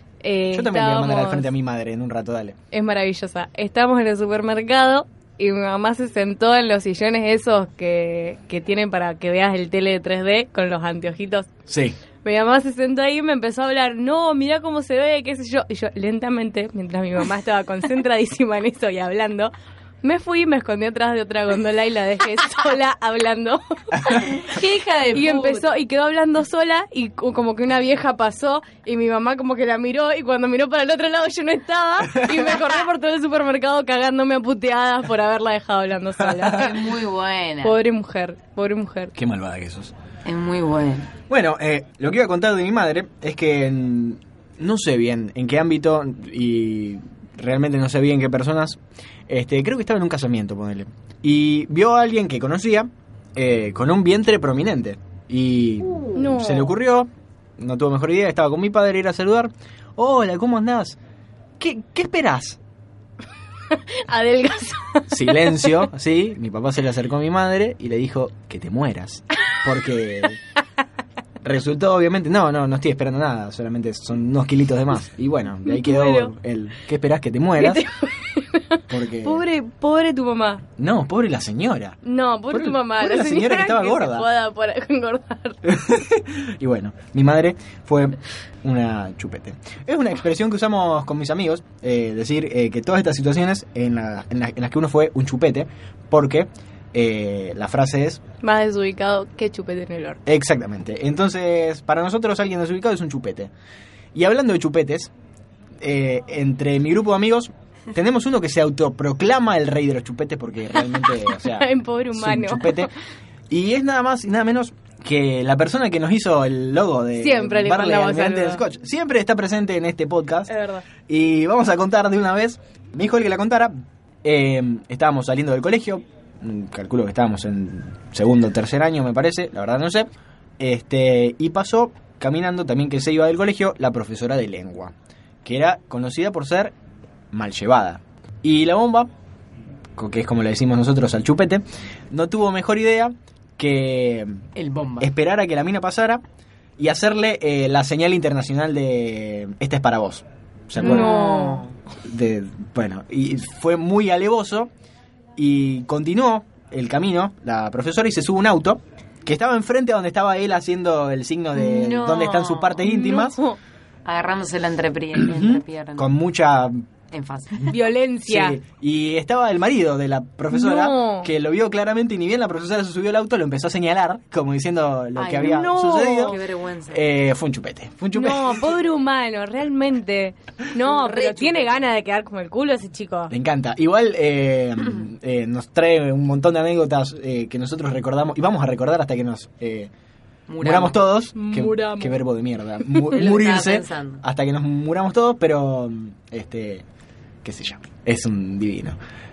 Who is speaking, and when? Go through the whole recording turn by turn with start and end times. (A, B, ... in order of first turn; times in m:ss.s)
0:00.2-0:01.5 A
0:00.5-0:02.6 B
0:02.7-0:11.5 A
0:11.7-0:12.0 B
0:12.2-0:19.5 A
0:20.0-0:24.2 A
0:24.0-0:25.7 C
0:25.1-0:36.9 A
0:32.1-0:32.6 B
0:36.2-0:36.6 B
0:36.5-0:37.8 C
0:37.6-0:39.1 A
0:39.2-0:39.9 B
0:40.2-0:41.1 C
0:41.3-1:01.0 B
0:56.2-0:56.7 A
1:01.6-1:02.6 B
1:03.7-1:05.7 A
1:05.1-1:10.4 B
1:11.4-1:17.9 B
1:15.7-1:16.3 A
1:17.6-1:20.6 A
1:18.9-1:19.4 B
1:20.8-1:22.0 B
1:22.0-1:25.6 A
1:22.5-1:24.3 B
1:25.6-1:38.2 B
1:38.4-1:40.2 A
1:40.3-1:43.5 B
1:44.1-1:45.1 B
1:45.8-1:52.9 B
1:51.4-1:52.9 A
1:53.5-2:00.5 B
1:57.2-1:58.6 A
2:00.5-2:00.8 A
2:01.1-2:03.7 B
2:04.2-2:10.1 B
2:10.6-2:16.8 B
2:17.3-2:19.1 B
2:20.0-2:24.4 B
2:24.6-2:25.1 C
2:25.0-2:26.2 B
2:26.8-2:31.2 B
2:30.8-2:31.7 C
2:30.8-2:31.6 A
2:32.0-2:34.7 B
2:35.4-2:43.4 B
2:41.6-2:42.8 C
2:42.8-2:43.6 A
2:44.0-2:46.1 C
2:45.2-2:46.8 B
2:47.1-2:47.7 C
2:47.7-2:48.6 A
2:48.3-2:56.4 B
2:50.5-2:51.3 A
2:55.2-2:55.7 C
2:55.4-2:56.4 A
2:56.2-2:57.0 C
2:56.9-2:58.8 B
2:58.1-3:03.3 A
3:00.8-3:01.8 C
3:03.3-3:09.9 B
3:10.5-3:11.0 C
3:10.6-3:16.8 B
3:11.4-3:12.2 A
3:13.1-3:14.2 C
3:17.4-3:19.0 B